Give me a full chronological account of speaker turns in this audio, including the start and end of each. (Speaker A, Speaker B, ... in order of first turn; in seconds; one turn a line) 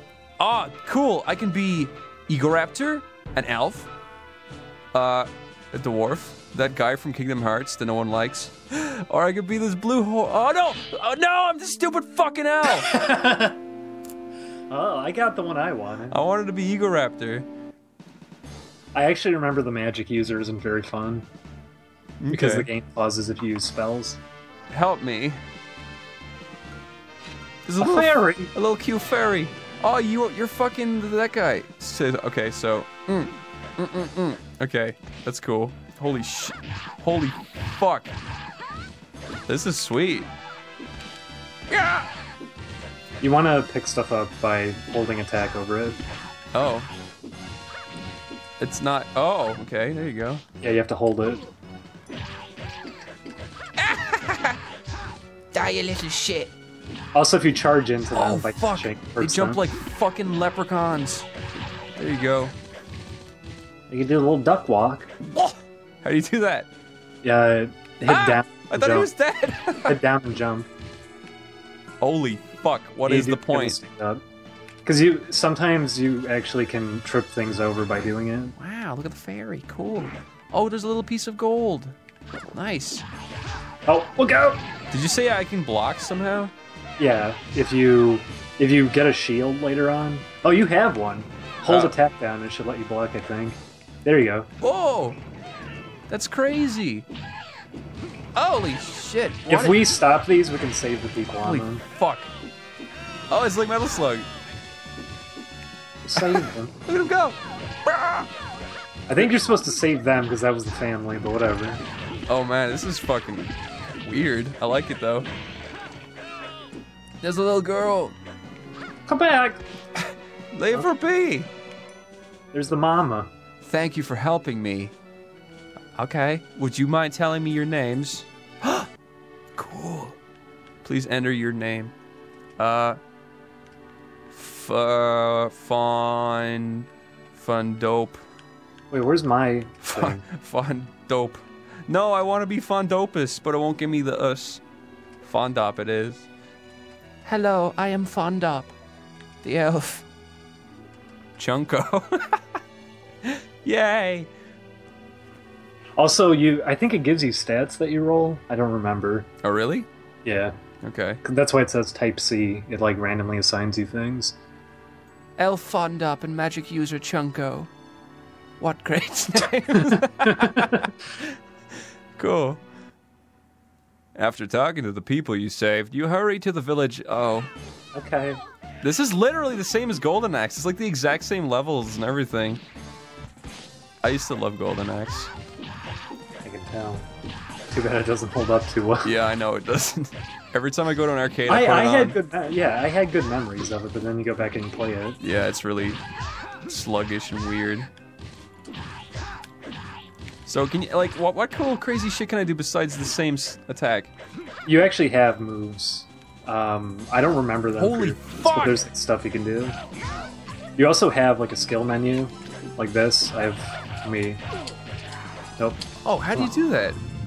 Speaker A: 0.4-3.9
Speaker A: 4.9-12.9
Speaker B: 12.6-13.6
Speaker B: 14.7-16.2
Speaker A: 16.1-17.5
Speaker B: 18.9-21.2
Speaker A: 22.2-22.7
Speaker B: 22.3-24.2
Speaker A: 24.7-25.4
Speaker A: 27.6-38.1
Speaker B: 27.8-28.5
Speaker A: 39.5-40.3
Speaker A: 41.7-42.1
Speaker B: 43.2-46.0
Speaker A: 46.5-46.9
Speaker A: 48.6-50.4
Speaker B: 50.6-51.4
Speaker A: 53.8-54.6
Speaker A: 55.5-56.5
Speaker B: 57.1-59.6
Speaker A: 58.1-61.3
Speaker A: 62.0-62.5
Speaker B: 63.9-65.1
Speaker A: 65.3-66.7
Speaker B: 67.2-69.1
Speaker A: 68.1-70.0
Speaker B: 69.9-70.7
Speaker A: 72.0-73.8
Speaker B: 73.0-74.2
Speaker B: 74.8-78.5
Speaker A: 78.5-82.0
Speaker A: 82.5-83.0
Speaker B: 83.9-84.6
Speaker A: 84.9-86.5
Speaker B: 87.0-94.5
Speaker A: 91.7-92.0
Speaker A: 94.6-95.2
Speaker A: 96.1-97.1
Speaker A: 98.3-99.9
Speaker B: 99.5-101.8
Speaker A: 101.4-102.3
Speaker A: 103.3-104.3
Speaker B: 106.0-106.7
Speaker A: 106.2-108.3
Speaker B: 109.1-111.8
Speaker A: 112.3-113.5
Speaker A: 114.0-115.3
Speaker A: 117.2-118.2
Speaker B: 119.1-119.6
Speaker A: 120.0-121.5
Speaker B: 122.5-123.3
Speaker A: 123.6-124.9
Speaker A: 125.9-128.9
Speaker A: 129.6-130.2
Speaker A: 130.8-131.9
Speaker A: 132.6-133.0
Speaker A: 134.3-138.2
Speaker B: 138.9-140.2
Speaker A: 139.8-144.6
Speaker A: 145.2-146.3
Speaker A: 147.2-148.7
Speaker A: 149.4-150.1
Speaker A: 151.4-152.4
Speaker A: 153.2-154.3
Speaker B: 156.0-159.3
Speaker A: 159.4-159.9
Speaker B: 160.2-160.5
Speaker A: 160.8-161.2
Speaker B: 161.2-164.3
Speaker A: 165.4-167.7
Speaker A: 168.6-171.3
Speaker B: 169.7-170.9
Speaker A: 172.2-172.6
Speaker A: 174.1-177.5
Speaker B: 177.9-178.4
Speaker A: 178.8-182.6
Speaker A: 184.0-185.3
Speaker B: 186.4-187.1
Speaker B: 187.7-189.1
Speaker A: 189.0-192.2
Speaker B: 191.5-195.2
Speaker A: 195.2-196.0
Speaker A: 196.7-197.9
Speaker A: 200.4-204.1
Speaker B: 204.6-209.8
Speaker A: 207.8-208.9
Speaker B: 210.8-214.4
Speaker A: 216.0-217.0